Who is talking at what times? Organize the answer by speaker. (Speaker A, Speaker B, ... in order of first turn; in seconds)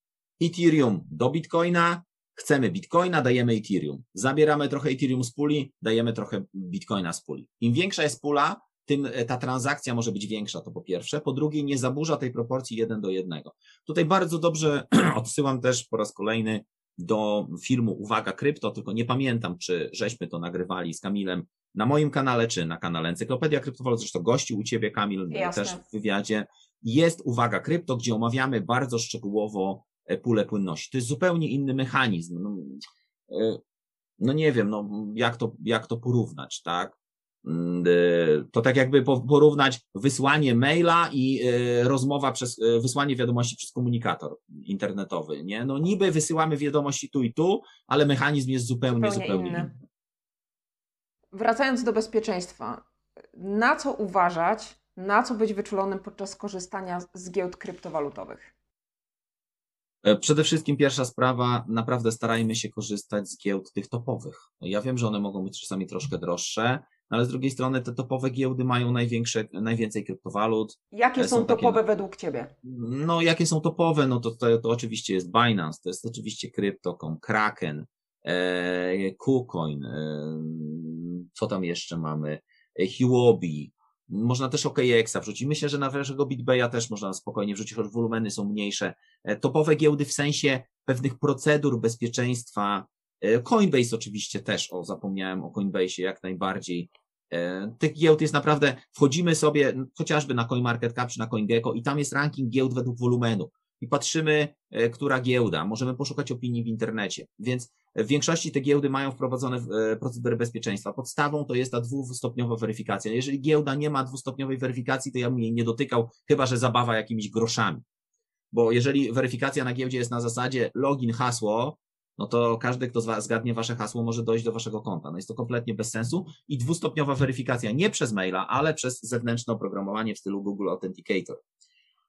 Speaker A: 0.4-33.6, 34.2-49.8, 60.0-71.8, 72.6-117.8, 118.5-131.4
Speaker B: 25.3-25.8, 48.9-49.7, 51.3-52.8, 53.4-58.5, 70.9-72.5